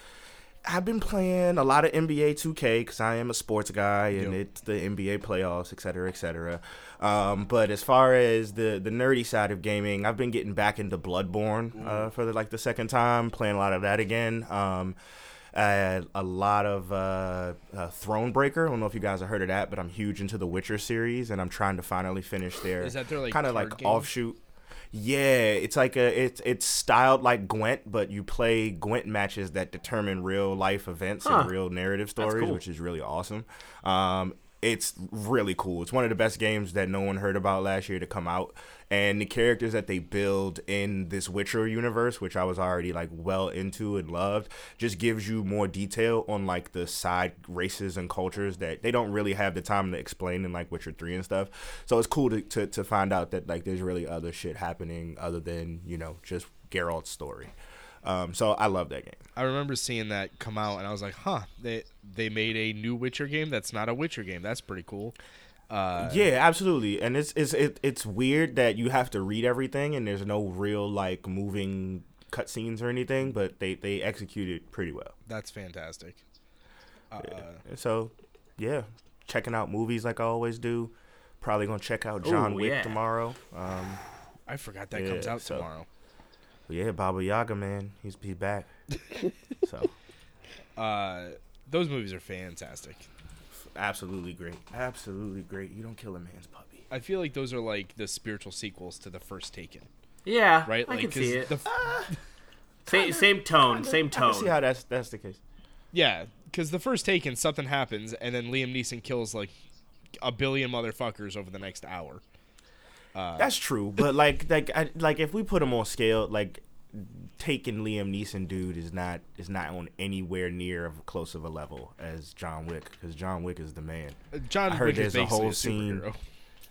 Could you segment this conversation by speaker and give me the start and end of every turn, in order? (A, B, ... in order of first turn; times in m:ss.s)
0:00.6-0:15.0 A
0:11.7-0:12.1 B
0:15.5-0:24.4 A
0:22.8-0:24.1 B
0:24.9-0:57.5 A
0:31.2-0:31.5 C
0:32.2-0:32.6 C
0:58.0-0:59.2 A
0:59.3-1:05.2 B
1:05.7-1:06.3 B
1:06.0-1:15.1 A
1:15.2-1:16.2 B
1:17.1-1:17.6 B
1:17.2-1:24.0 A
1:22.2-1:23.0 C
1:24.5-1:25.9 B
1:24.9-1:25.7 A
1:26.7-1:28.7 A
1:29.6-1:29.9 A
1:30.8-1:33.1 B
1:33.6-1:36.8 A
1:36.9-1:39.9 B
1:40.2-1:41.5 C
1:40.6-1:41.8 B
1:41.6-1:42.1 A
1:42.8-1:44.6 C
1:42.9-1:45.4 A
1:45.9-1:49.5 B
1:50.2-1:52.2 B
1:53.1-1:53.5 B
1:53.4-2:06.0 A
2:04.3-2:06.2 B